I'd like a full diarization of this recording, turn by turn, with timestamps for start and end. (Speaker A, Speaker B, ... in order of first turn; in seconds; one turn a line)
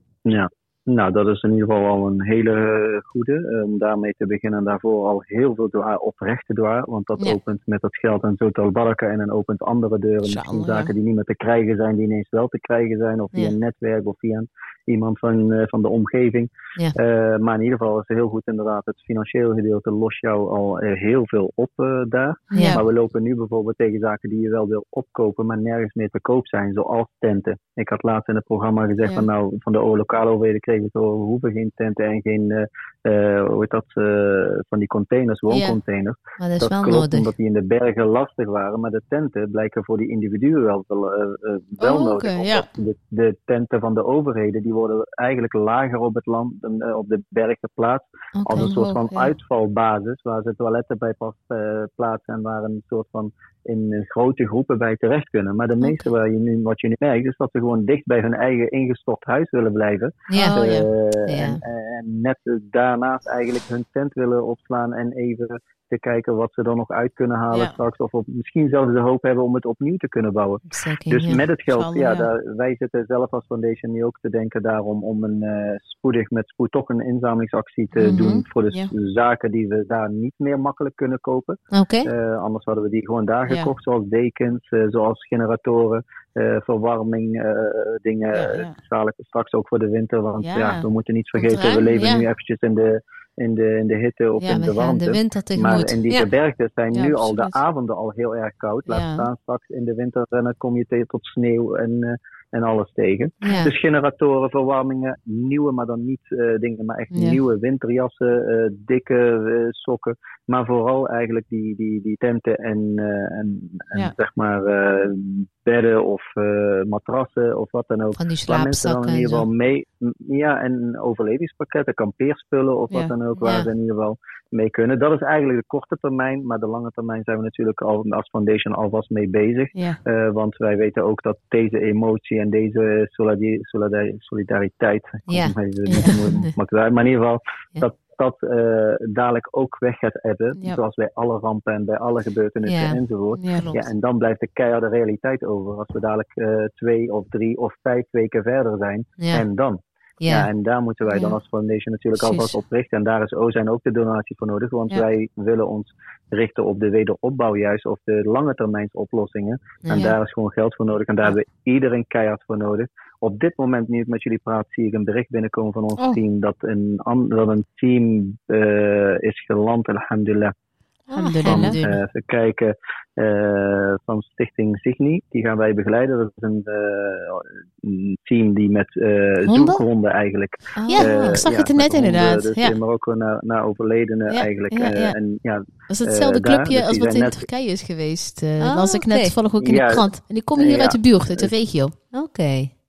Speaker A: 0.2-170.5
Speaker B: 10.2-10.9
Speaker C: 22.5-22.8
Speaker B: 22.5-22.8
Speaker B: 35.5-35.8
Speaker C: 36.4-37.3
Speaker B: 41.8-42.7
Speaker C: 48.3-48.8
Speaker B: 48.5-49.3
Speaker C: 60.3-60.6
Speaker B: 60.4-60.9
Speaker C: 61.3-61.6
Speaker B: 67.5-67.8
Speaker C: 70.7-71.4
Speaker B: 71.7-72.3
Speaker B: 78.0-78.9
Speaker C: 81.7-82.1
Speaker B: 88.3-88.8
Speaker B: 90.4-90.8
Speaker B: 91.4-92.3
Speaker B: 94.4-94.7
Speaker C: 94.5-96.3
Speaker B: 96.9-97.6
Speaker B: 98.9-99.3
Speaker C: 103.4-103.7
Speaker B: 107.1-107.4
Speaker C: 118.1-119.5
Speaker B: 122.9-123.7
Speaker C: 123.3-123.6
Speaker C: 135.3-136.5
Speaker B: 135.9-136.2
Speaker C: 142.6-143.9
Speaker B: 143.3-143.7
Speaker C: 149.2-149.4
Speaker C: 150.2-150.5
Speaker B: 151.1-151.4
Speaker B: 152.2-152.5
Speaker C: 159.8-160.1
Speaker B: 171.1-171.8
Speaker C: 171.1-172.0
Speaker A: 171.4-187.4
Speaker B: 179.4-179.8
Speaker C: 180.7-181.1
Speaker B: 180.9-182.7
Speaker B: 184.3-185.2
Speaker B: 185.9-191.9
Speaker C: 188.6-189.3
Speaker A: 189.6-191.5
Speaker C: 192.1-192.7